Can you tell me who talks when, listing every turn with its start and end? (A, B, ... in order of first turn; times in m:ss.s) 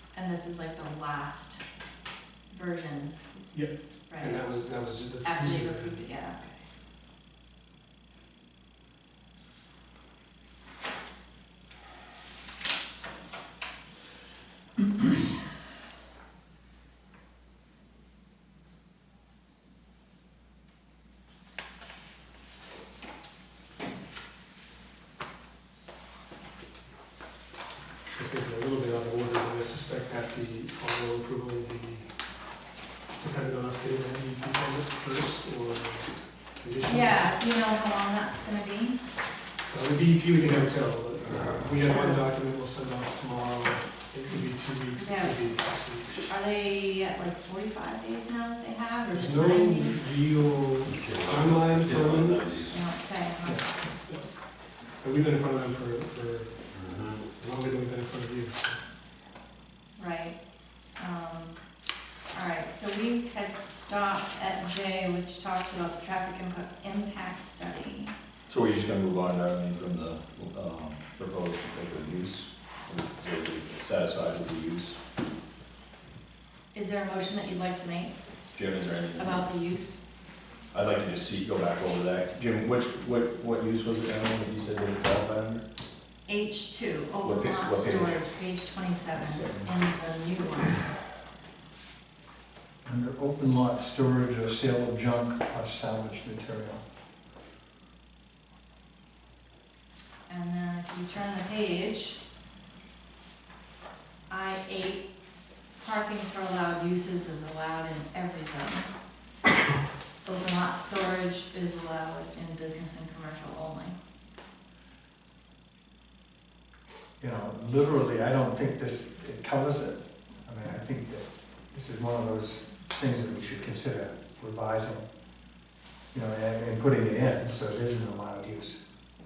0:00.1-0:01.6 A
0:02.5-0:03.1 A
0:03.5-0:06.1 B
0:04.1-0:04.6 A
0:05.2-0:06.4 A
0:28.1-0:32.1 B
0:33.2-0:37.3 B
0:36.8-0:39.0 A
0:39.7-0:46.3 B
0:41.8-0:42.2 A
0:45.0-0:45.4 A
0:46.3-0:50.0 A
0:49.0-0:52.8 B
0:50.9-0:52.8 C
0:52.7-0:53.6 A
0:55.0-0:56.6 B
0:56.7-0:57.2 C
0:57.3-0:58.8 B
1:00.0-1:00.4 A
1:01.0-1:01.5 A
1:02.3-1:08.1 A
1:08.5-1:15.0 C
1:16.7-1:18.1 A
1:18.5-1:19.5 C
1:19.1-1:20.0 A
1:20.7-1:25.7 C
1:26.3-1:30.8 A
1:27.2-1:28.2 C
1:29.1-1:29.8 C
1:32.8-1:36.8 D
1:40.3-1:42.2 A
1:44.3-1:45.1 A
1:45.8-1:48.9 A
1:50.2-1:54.0 A
1:57.2-2:05.0 D
2:06.1-2:08.8 D